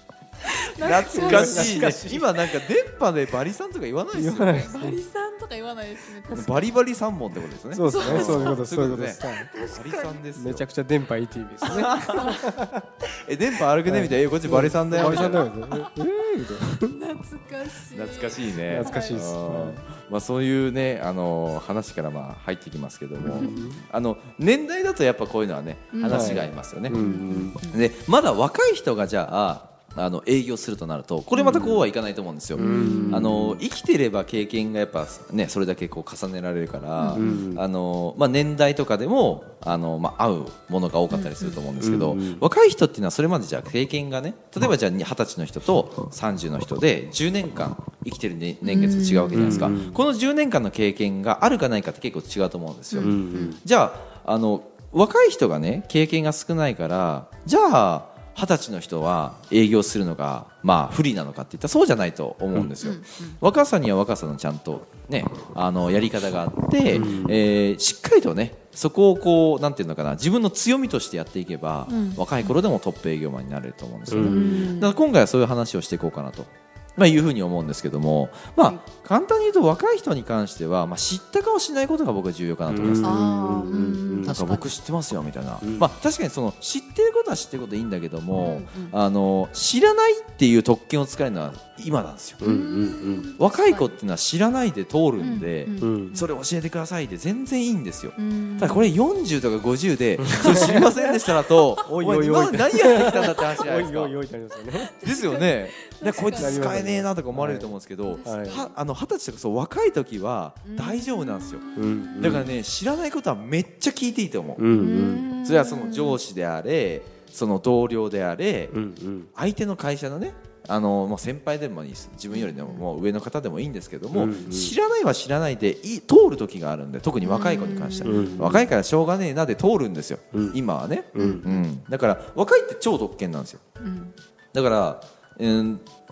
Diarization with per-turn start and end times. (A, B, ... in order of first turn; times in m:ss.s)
0:00.4-0:02.0 A
0:00.8-0:04.6 B
0:01.1-0:02.3 C
0:04.1-0:05.0 C
0:04.5-0:06.8 A
0:06.3-0:10.6 B
0:07.7-0:09.5 C
0:07.9-0:10.2 A
0:10.3-0:12.8 C
0:11.6-0:12.5 A
0:11.7-0:12.4 B
0:13.1-0:15.4 B
0:13.8-0:17.0 C
0:14.9-0:15.9 A
0:16.8-0:19.3 A
0:17.9-0:27.0 B
0:18.6-0:19.8 C
0:23.2-0:23.8 C
0:23.3-0:23.8 A
0:25.9-0:27.8 A
0:26.1-0:27.6 C
0:27.6-1:23.2 B
0:31.3-0:31.8 A
0:31.6-0:31.8 C
0:32.6-0:33.6 C
0:32.6-0:33.3 A
0:37.0-0:37.2 A
0:37.2-0:37.6 C
0:41.1-0:41.6 A
0:41.8-0:42.4 C
0:48.6-0:49.8 A
0:49.3-0:50.0 C
0:52.9-0:53.6 A
0:53.0-0:53.6 C
1:02.8-1:03.4 A
1:06.9-1:07.4 C
1:11.9-1:12.5 A
1:14.1-1:14.6 C
1:14.2-1:15.0 A
1:22.7-1:24.3 C
1:23.0-1:24.7 A
1:24.2-1:32.4 B
1:25.6-1:25.9 C
1:28.4-1:28.9 A
1:32.4-1:33.3 C
1:32.4-1:33.9 A
1:33.4-1:44.2 B
1:35.2-1:36.3 A
1:35.8-1:36.2 C
1:38.2-1:38.9 A
1:40.2-1:41.1 C
1:40.3-1:40.9 A
1:41.9-1:45.0 C
1:43.1-1:43.7 A
1:44.6-1:46.7 A
1:45.0-1:51.6 B
1:46.3-1:48.6 C
1:48.1-1:48.8 A
1:50.6-1:52.6 A
1:51.8-1:52.5 C
1:52.2-1:54.7 B
1:54.6-1:55.3 C
1:54.7-1:56.2 A
1:55.4-1:58.8 B
1:58.7-1:59.3 C
1:59.3-2:13.6 B
2:02.3-2:02.9 A
2:04.1-2:04.8 C
2:07.2-2:08.7 A
2:08.0-2:08.7 C
2:11.1-2:11.6 C
2:11.2-2:11.6 A
2:13.8-2:14.1 A
2:14.5-2:15.8 B